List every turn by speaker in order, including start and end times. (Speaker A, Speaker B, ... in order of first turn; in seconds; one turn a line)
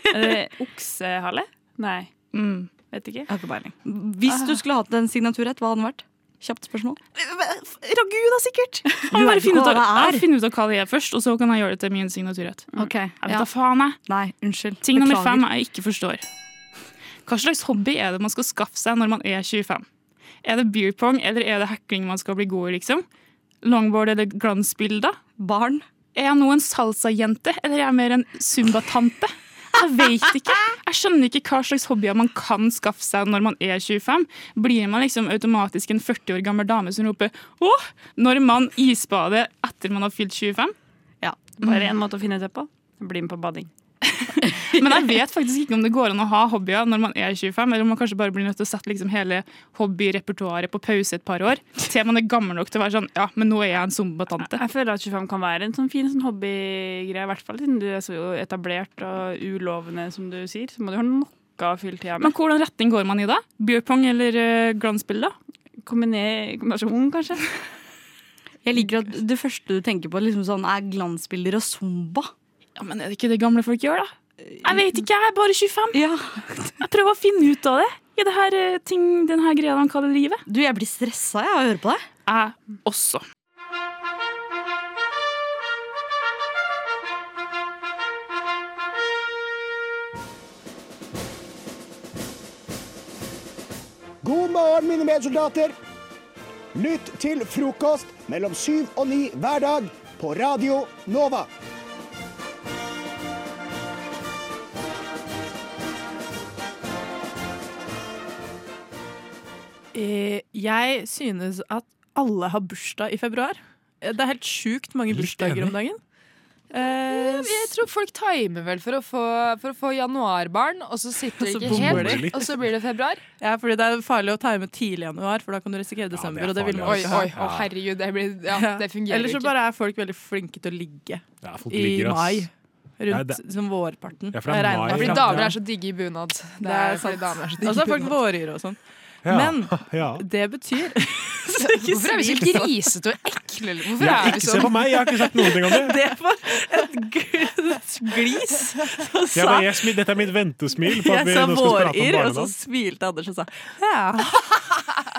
Speaker A: 0.1-2.1
Speaker B: 2.3-3.2
Speaker A: 2.8-3.3
Speaker C: 3.3-7.4
Speaker A: 4.3-4.6
Speaker C: 8.8-10.2
Speaker B: 9.1-12.7
Speaker C: 12.8-13.5
Speaker B: 13.2-14.0
Speaker C: 14.0-15.5
Speaker B: 14.8-16.2
Speaker B: 17.2-19.9
Speaker B: 20.4-23.0
Speaker B: 23.6-25.2
Speaker C: 25.4-25.8
Speaker B: 26.1-40.7
Speaker C: 41.2-41.5
Speaker A: 41.6-43.7
Speaker B: 41.6-41.9
Speaker B: 44.8-54.6
Speaker A: 54.4-62.4
Speaker B: 62.2-65.3
Speaker A: 65.8-67.7
Speaker C: 68.6-72.3
Speaker B: 72.8-76.0
Speaker C: 74.4-75.0
Speaker C: 75.9-76.8
Speaker B: 76.8-80.4
Speaker C: 80.5-82.1
Speaker B: 82.3-83.2
Speaker D: 94.2-95.7
Speaker D: 96.7-101.5
Speaker E: 109.9-116.0
Speaker F: 115.1-115.8
Speaker E: 116.7-117.7
Speaker G: 117.1-123.2
Speaker E: 121.4-122.5
Speaker F: 121.6-122.5
Speaker E: 123.4-127.4
Speaker F: 126.1-127.7
Speaker G: 126.8-129.5
Speaker E: 128.5-135.6
Speaker F: 131.4-132.5
Speaker F: 133.1-133.4
Speaker F: 134.3-135.6
Speaker G: 134.9-138.2
Speaker E: 136.6-138.8
Speaker F: 139.2-140.3
Speaker E: 139.3-142.8
Speaker G: 141.6-144.8
Speaker F: 144.0-146.0
Speaker E: 144.0-149.8
Speaker F: 149.3-152.5
Speaker E: 150.8-154.8